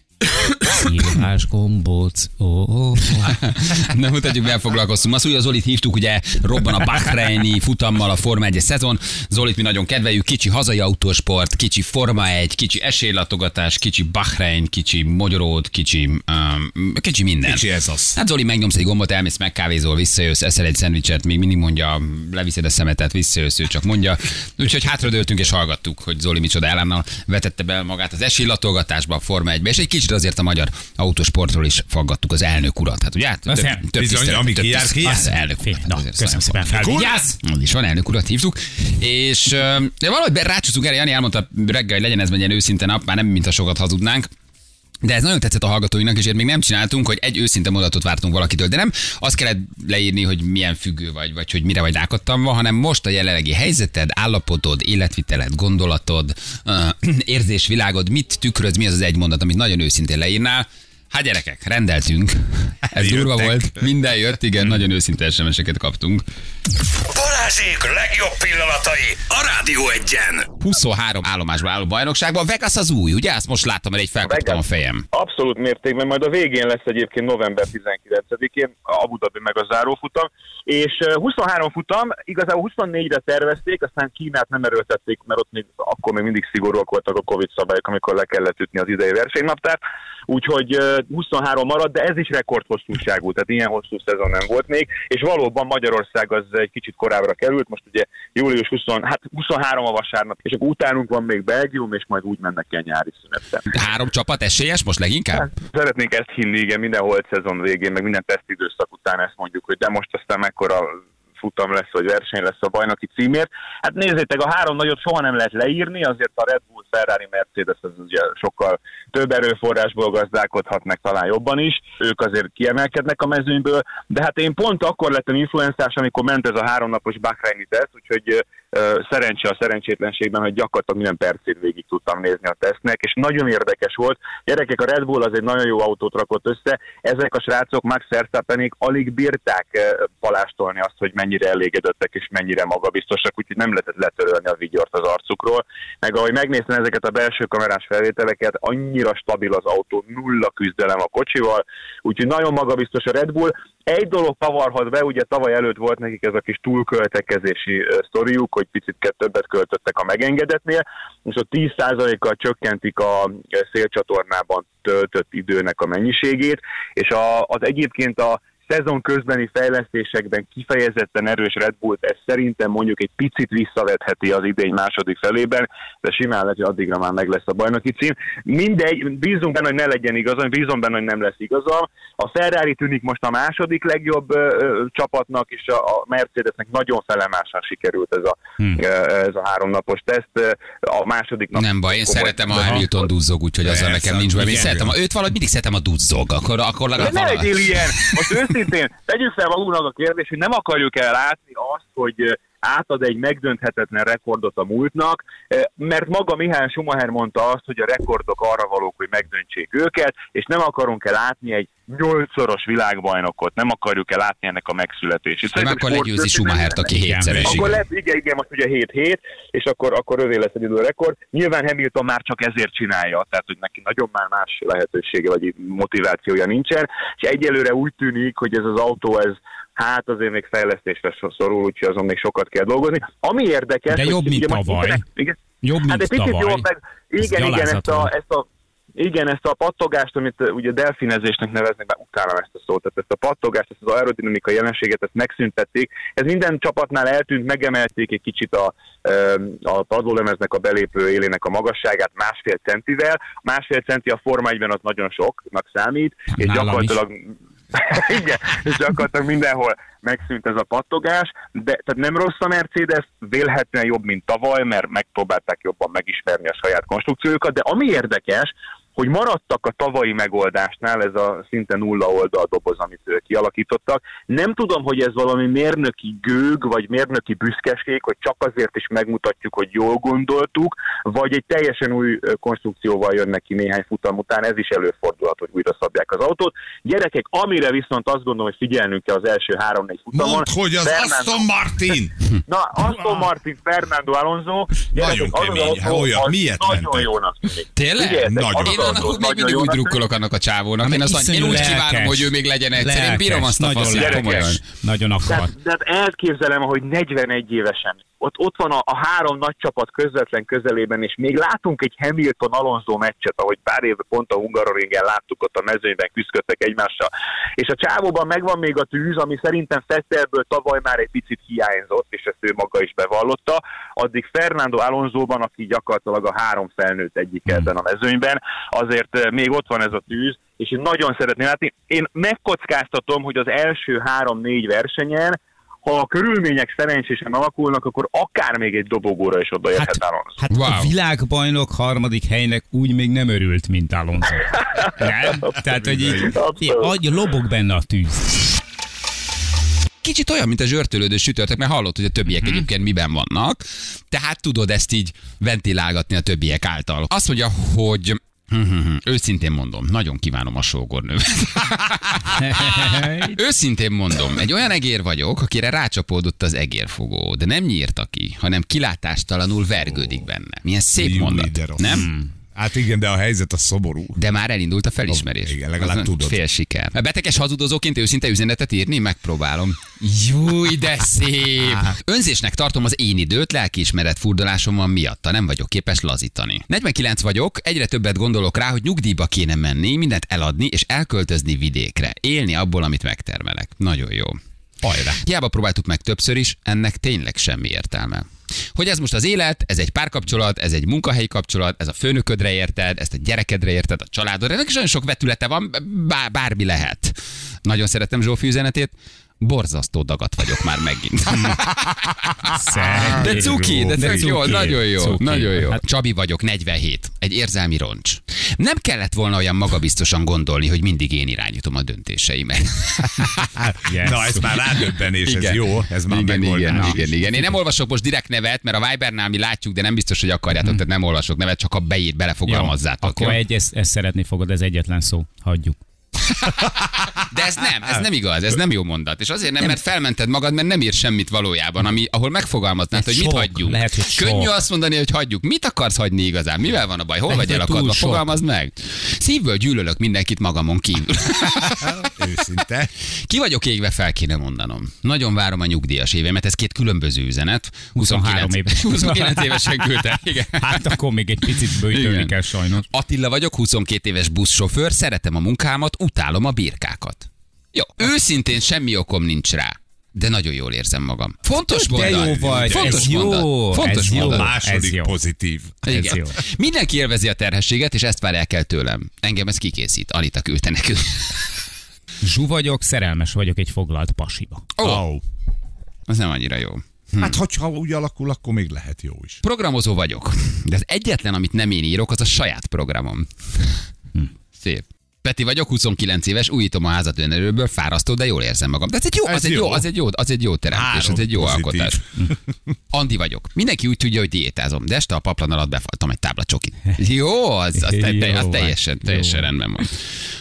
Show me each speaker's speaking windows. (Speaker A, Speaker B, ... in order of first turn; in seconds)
Speaker A: 0.7-3.4, 33.5-33.8, 35.0-37.4, 192.6-192.8, 216.9-217.5, 233.9-235.0, 235.6-236.7, 237.2-238.1, 256.3-257.0, 300.8-305.5, 339.8-348.5, 362.4-363.4, 371.9-372.3, 412.5-415.8, 423.9-424.5, 426.7-427.0, 432.5-435.8, 442.9-444.5, 447.3-448.3, 458.0-459.8, 460.6-462.9, 471.7-475.1, 475.9-476.4, 482.2-484.7, 507.8-509.5
Speaker B: 3.2-44.3, 45.0-66.2, 70.6-75.1, 103.7-105.5, 191.5-198.1, 215.5-217.8, 297.8-304.6, 340.5-340.9, 350.0-372.1, 374.2-394.4, 395.2-412.4, 413.0-423.5, 425.2-433.4, 436.4-452.1, 453.3-460.9, 461.9-474.6, 475.9-481.4, 484.8-485.1, 486.1-487.4, 489.4-493.8, 494.6-502.0, 502.9-510.0
Speaker C: 17.4-18.2, 33.9-35.3, 36.8-37.2, 62.9-63.8, 193.6-194.9, 217.3-217.6, 290.1-292.2, 294.9-297.1, 298.2-299.1, 371.0-374.2, 375.1-376.4, 381.6-381.9, 394.8-395.2, 412.8-414.7, 423.5-427.4, 452.0-452.9, 471.8-476.4, 484.8-485.2, 487.2-489.4, 499.2-499.9, 500.7-502.3
Speaker D: 67.1-70.5
Speaker E: 74.2-74.6, 75.1-103.7, 105.6-192.9, 197.0-216.9, 217.4-291.5, 292.5-300.0, 303.9-304.5, 305.3-340.4, 346.1-346.9